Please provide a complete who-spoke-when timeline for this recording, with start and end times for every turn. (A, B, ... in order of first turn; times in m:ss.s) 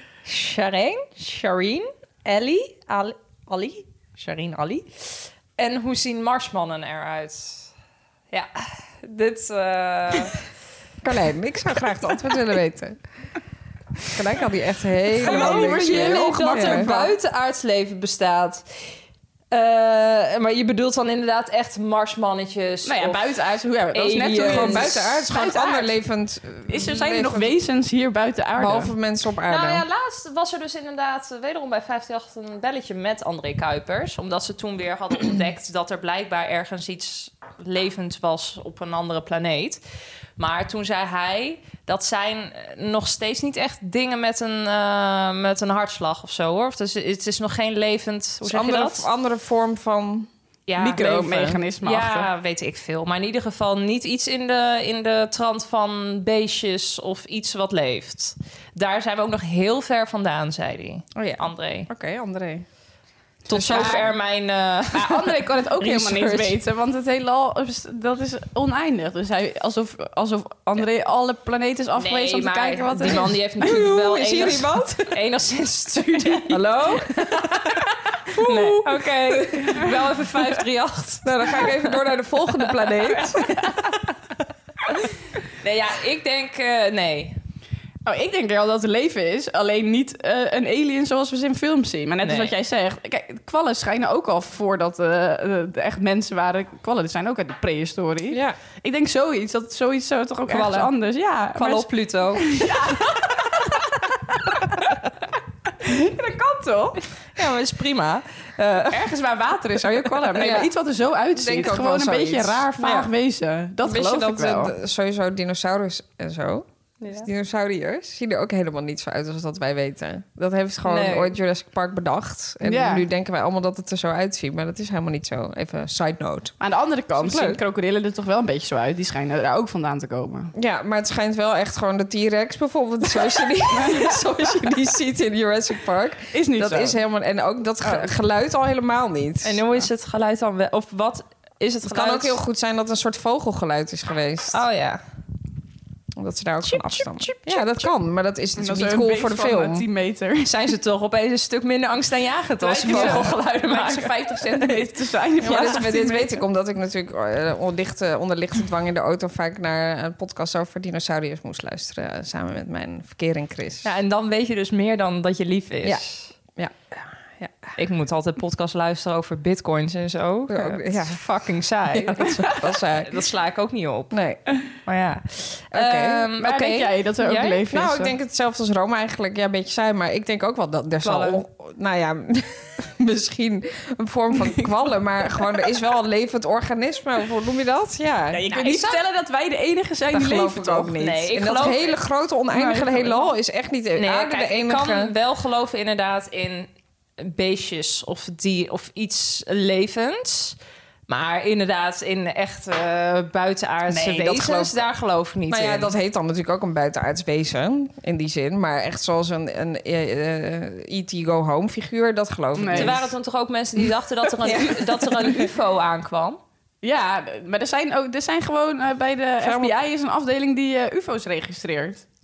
0:00.2-0:07.7 A
0:08.3-0:10.4 A
0:11.0-0:13.0 B
0:14.1-0:17.1 B
0:15.2-0:16.9 C
0:15.2-0:19.0 A
0:19.5-0:23.2 A
0:22.8-0:25.9 C
0:23.9-0:25.1 A
0:24.4-0:27.5 B
0:26.7-0:28.9 C
0:28.6-0:29.8 B
0:29.5-0:39.8 A
0:40.4-0:49.1 A
0:48.4-0:50.3 B
0:50.7-0:51.3 A
0:50.8-0:52.3 C
0:51.0-0:51.6 B
0:51.8-1:01.9 A
1:01.2-1:02.6 B
1:03.5-1:04.1 B
1:03.5-1:06.6 A
1:03.7-1:04.1 C
1:04.9-1:13.7 C
1:12.0-1:22.0 A
1:13.6-1:15.2 B
1:16.5-1:17.6 B
1:18.3-1:19.8 B
1:21.2-1:23.9 B
1:25.5-1:27.4 A
1:28.1-1:44.8 C
1:32.2-1:32.5 A
1:38.3-1:38.6 B
1:40.5-1:40.9 A
1:41.5-1:43.0 A
1:45.8-1:47.0 C
1:47.4-1:49.1 A
1:48.9-1:54.7 C
1:50.3-1:50.6 A
1:50.4-1:50.7 B
1:51.4-1:53.1 B
1:53.8-2:06.6 B
1:57.0-1:57.3 A
2:00.8-2:01.4 A
2:02.6-2:03.1 C
2:06.6-2:10.5 C
2:07.2-2:07.6 B
2:10.6-2:19.6 B
2:13.7-2:14.7 C
2:16.3-2:17.0 C
2:17.8-2:18.1 C
2:19.4-2:22.4 A
2:21.8-2:24.6 B
2:24.5-2:25.0 A
2:26.2-2:29.9 B
2:26.6-2:27.9 A
2:28.6-2:30.5 C
2:30.4-2:35.0 A
2:32.6-2:36.4 C
2:32.8-2:33.3 B
2:35.4-2:43.9 B
2:43.8-2:46.3 A
2:45.8-2:47.7 B
2:47.8-2:54.2 A
2:50.5-2:51.2 B
2:51.9-2:53.1 B
2:54.1-2:54.4 B
2:54.7-2:57.6 A
2:55.7-2:56.3 B
2:56.4-2:58.1 C
2:57.7-3:08.4 B
3:01.0-3:01.4 A
3:08.3-3:11.0 C
3:08.5-3:09.0 A
3:10.1-3:15.1 B
3:11.0-3:12.0 A
3:12.5-3:13.3 C
3:14.0-3:20.6 A
3:21.1-3:25.9 A
3:23.9-3:24.8 B
3:25.5-3:33.1 B
3:32.6-3:33.0 C
3:32.7-3:36.4 A
3:34.4-3:35.3 B
3:36.8-3:42.0 C
3:39.4-3:39.7 B